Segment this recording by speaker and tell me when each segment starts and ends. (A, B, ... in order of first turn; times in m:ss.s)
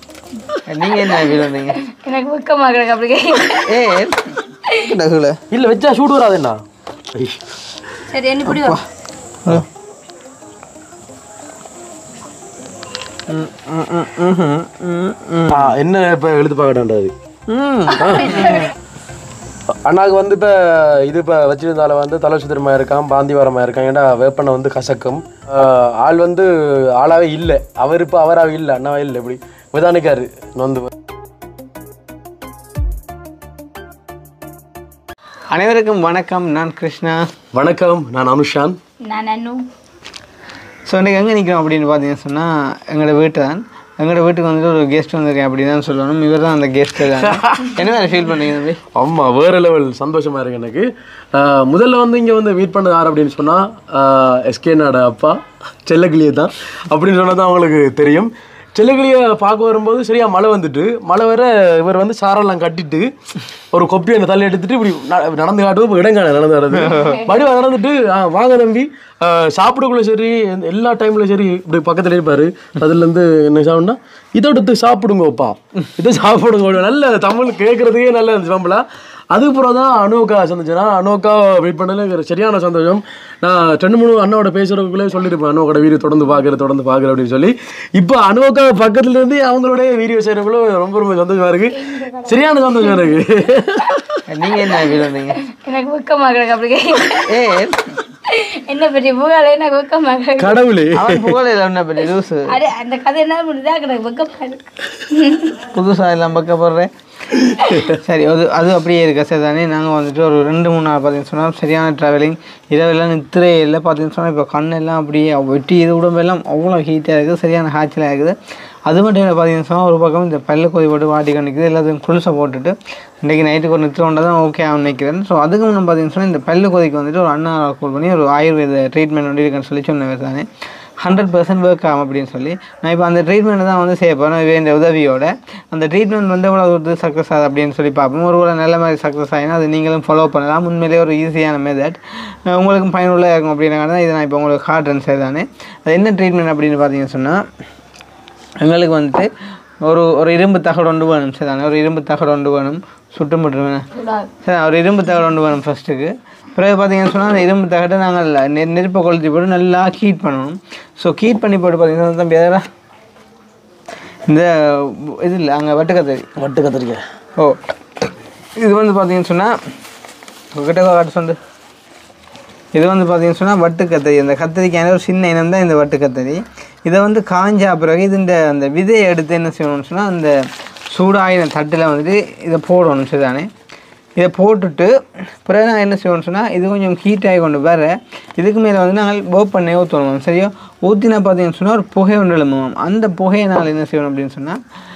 0:00.5-0:03.9 A
0:00.7-0:01.8 B
0:03.5-0:05.4 B
0:05.5-0:07.5 C
0:08.1-0:08.8 A
0:08.5-0:08.8 B
0:13.3-0:15.7 B
0:15.5-0:17.1 C
0:17.5-0:18.7 B
0:17.9-0:18.7 A
0:18.0-0:18.5 C
0:19.8-0:30.9 C
0:35.5-0:37.3 B
0:37.5-0:38.8 C
0:39.0-0:39.6 A
0:40.9-0:48.8 B
0:47.1-0:47.8 C
0:48.9-1:03.1 C
1:03.7-1:34.2 C
1:06.7-1:07.3 B
1:31.8-1:33.1 A
1:34.3-1:35.4 B
1:34.7-1:37.4 A
1:37.1-1:38.0 B
1:38.2-1:40.6 A
1:40.4-1:41.4 C
1:40.9-1:42.6 B
1:42.5-1:45.6 A
1:45.7-1:46.9 B
1:47.6-1:48.0 C
1:47.9-2:10.5 B
2:11.0-2:27.4 B
2:28.6-2:29.3 B
2:29.8-2:33.9 B
2:34.0-2:34.3 A
2:34.4-2:42.6 B
2:44.3-2:46.3 B
2:46.4-2:47.0 C
2:48.6-2:49.6 B
2:50.5-2:51.4 B
2:52.8-3:00.4 B
3:00.9-3:03.5 B
3:04.2-3:14.6 B